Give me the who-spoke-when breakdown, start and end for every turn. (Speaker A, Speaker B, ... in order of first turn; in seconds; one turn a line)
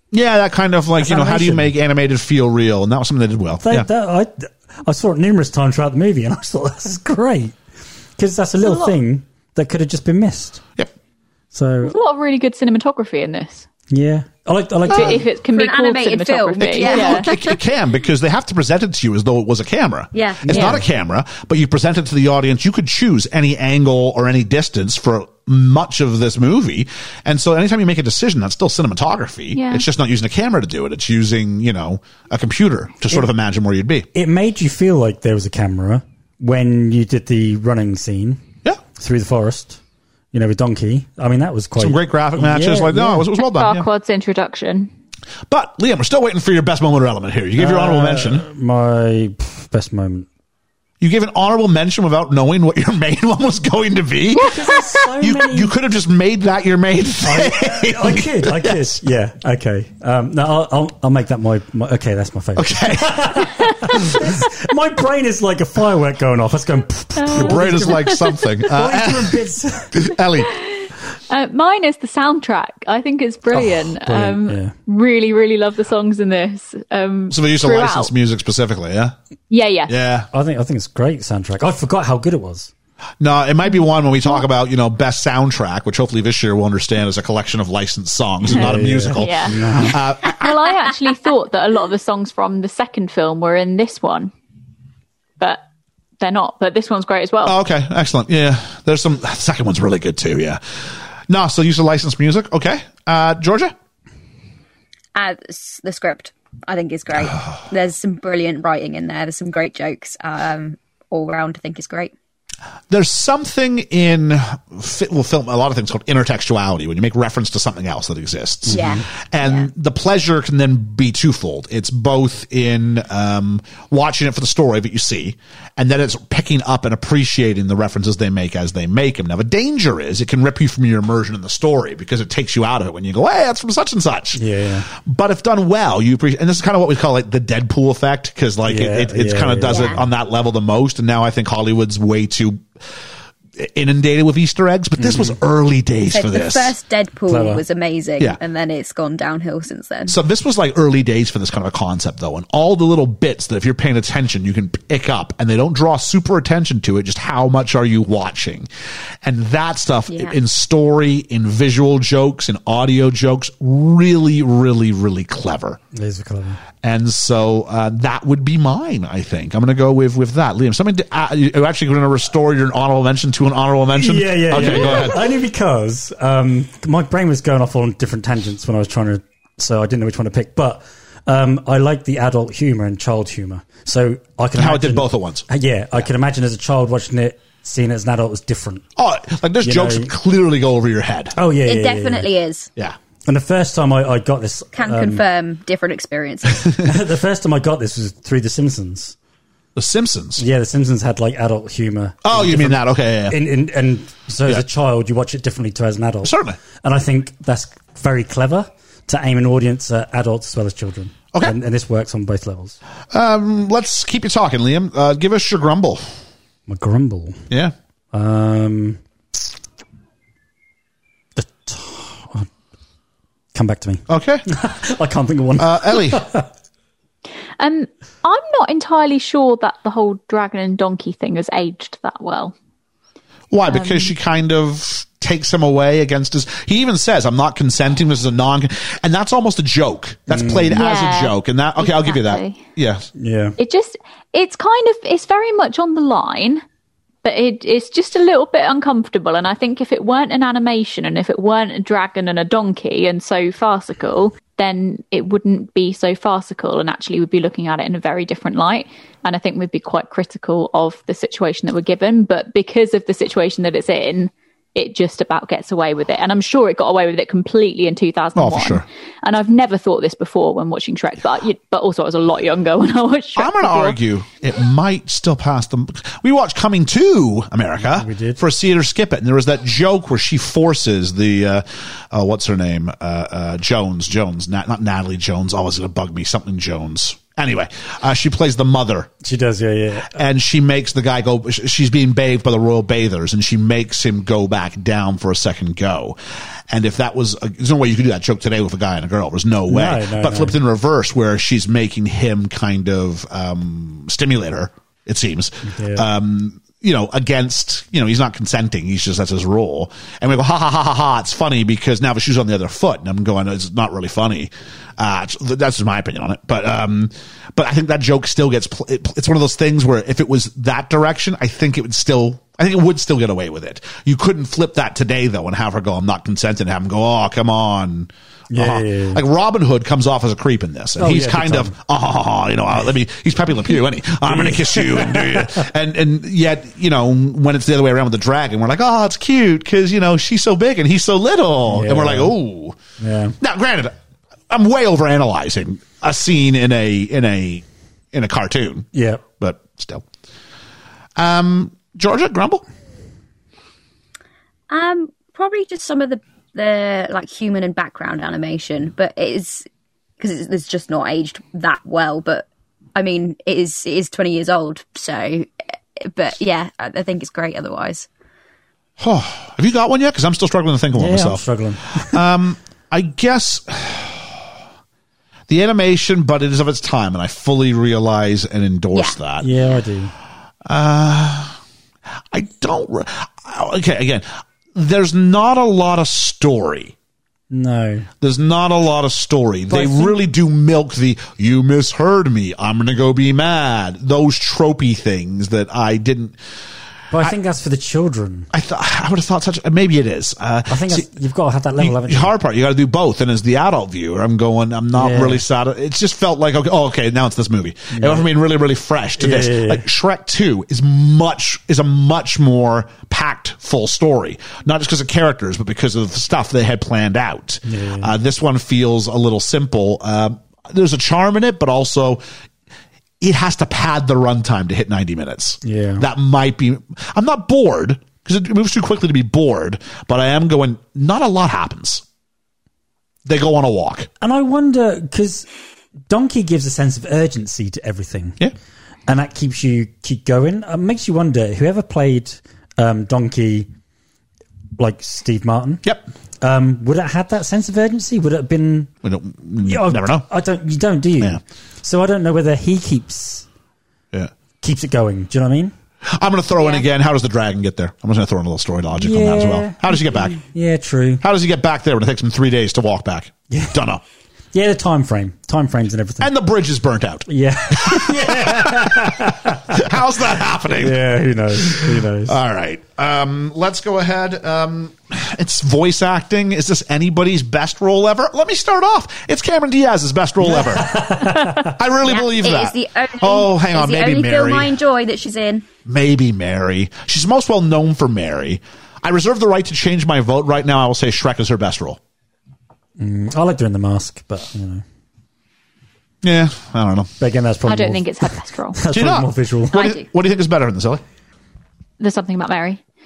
Speaker A: 0.1-3.9
Speaker B: 1.0-1.7
Speaker B: 3.6-7.6
Speaker B: 8.2-10.6
Speaker C: 8.6-9.0
Speaker B: 11.5-11.9
Speaker C: 11.8-13.7
Speaker B: 13.9-15.2
Speaker C: 14.9-17.4
Speaker D: 14.9-17.6
Speaker A: 16.9-34.1
Speaker D: 20.1-20.8
Speaker B: 20.4-20.8
Speaker C: 29.5-29.9
Speaker B: 34.1-38.4
Speaker B: 39.0-39.8
Speaker B: 40.3-43.3
Speaker A: 41.8-43.9
Speaker C: 43.4-44.9
Speaker A: 45.5-48.5
Speaker B: 47.6-50.3
Speaker A: 51.0-59.0
Speaker B: 54.4-55.7
Speaker B: 57.2-68.1
Speaker A: 62.6-63.5
Speaker C: 67.2-68.4
Speaker A: 67.3-69.4
Speaker B: 68.7-70.0
Speaker A: 69.9-70.6
Speaker C: 70.5-78.1
Speaker B: 73.5-74.7
Speaker A: 77.3-79.2
Speaker C: 79.5-79.9
Speaker A: 79.9-80.3
Speaker B: 80.3-82.7
Speaker A: 83.2-90.5
Speaker B: 88.5-90.0
Speaker C: 89.2-94.3
Speaker C: 96.2-97.6
Speaker A: 97.5-103.7
Speaker D: 105.2-112.1
Speaker A: 112.9-142.7
Speaker B: 118.7-119.1
Speaker D: 118.7-119.7
Speaker B: 134.3-134.9
Speaker B: 138.7-140.0
Speaker D: 139.7-140.0
Speaker A: 143.6-146.7
Speaker B: 145.0-145.3
Speaker D: 146.1-150.2
Speaker B: 147.3-147.6
Speaker A: 150.1-158.7
Speaker A: 159.2-165.8
Speaker D: 160.1-160.4
Speaker B: 165.9-166.6
Speaker A: 166.8-175.2
Speaker B: 174.0-188.8
Speaker A: 184.6-185.5
Speaker A: 189.0-191.3
Speaker B: 189.6-190.1
Speaker B: 191.3-192.3
Speaker D: 191.6-192.7
Speaker B: 193.3-195.2
Speaker D: 194.7-196.7
Speaker B: 196.8-199.2
Speaker A: 199.8-200.4
Speaker B: 200.4-212.8
Speaker A: 202.2-203.3
Speaker A: 206.2-206.6
Speaker A: 213.1-216.0
Speaker B: 216.7-217.4
Speaker B: 218.1-219.0
Speaker B: 221.4-222.5
Speaker B: 223.5-226.5
Speaker A: 224.1-224.4
Speaker A: 225.6-226.2
Speaker C: 227.6-232.5
Speaker A: 233.5-243.1
Speaker C: 233.7-234.1
Speaker B: 240.3-240.8
Speaker C: 240.8-242.6
Speaker B: 243.2-243.6
Speaker C: 243.6-246.6
Speaker C: 247.2-274.0
Speaker A: 268.4-268.9
Speaker A: 273.4-289.1
Speaker B: 277.8-278.4
Speaker B: 289.2-290.1
Speaker A: 290.1-342.8
Speaker B: 299.7-300.6
Speaker B: 305.6-306.1
Speaker B: 328.5-329.2
Speaker B: 331.0-331.8
Speaker B: 334.2-335.7
Speaker B: 341.7-342.4
Speaker B: 343.0-343.4
Speaker A: 343.4-343.9
Speaker A: 344.5-348.9
Speaker B: 348.9-349.2
Speaker A: 349.4-350.1
Speaker A: 351.2-352.6
Speaker D: 354.7-359.7
Speaker D: 360.2-368.1
Speaker A: 369.0-374.4
Speaker B: 371.0-372.2
Speaker A: 375.5-379.5
Speaker B: 379.4-380.1
Speaker A: 380.6-381.6
Speaker A: 382.3-386.9
Speaker B: 387.5-388.1
Speaker A: 388.2-396.4
Speaker B: 389.7-390.2
Speaker B: 397.1-398.5
Speaker A: 398.5-401.1
Speaker B: 400.7-402.3
Speaker A: 401.8-422.2
Speaker B: 404.9-405.4
Speaker B: 407.9-408.3
Speaker B: 409.2-409.9
Speaker B: 417.7-418.1
Speaker A: 423.2-432.0
Speaker B: 425.6-426.1
Speaker A: 433.3-434.1
Speaker B: 434.2-435.5
Speaker B: 436.1-438.4
Speaker B: 439.1-443.7
Speaker B: 444.8-445.8
Speaker B: 446.4-448.9
Speaker A: 449.0-450.3
Speaker B: 449.6-453.5
Speaker B: 454.6-455.7
Speaker A: 456.1-460.4
Speaker D: 456.6-456.9
Speaker B: 459.0-461.2
Speaker A: 461.2-464.0
Speaker B: 463.5-463.8
Speaker B: 464.5-466.3
Speaker A: 466.2-471.0
Speaker B: 467.3-469.9
Speaker B: 470.8-472.4
Speaker A: 471.5-484.8
Speaker B: 480.4-481.7
Speaker D: 482.0-485.7
Speaker A: 485.9-492.0
Speaker B: 493.0-494.8
Speaker A: 496.2-497.1
Speaker B: 497.2-499.9
Speaker C: 497.7-498.8
Speaker A: 498.9-501.0
Speaker C: 502.0-502.8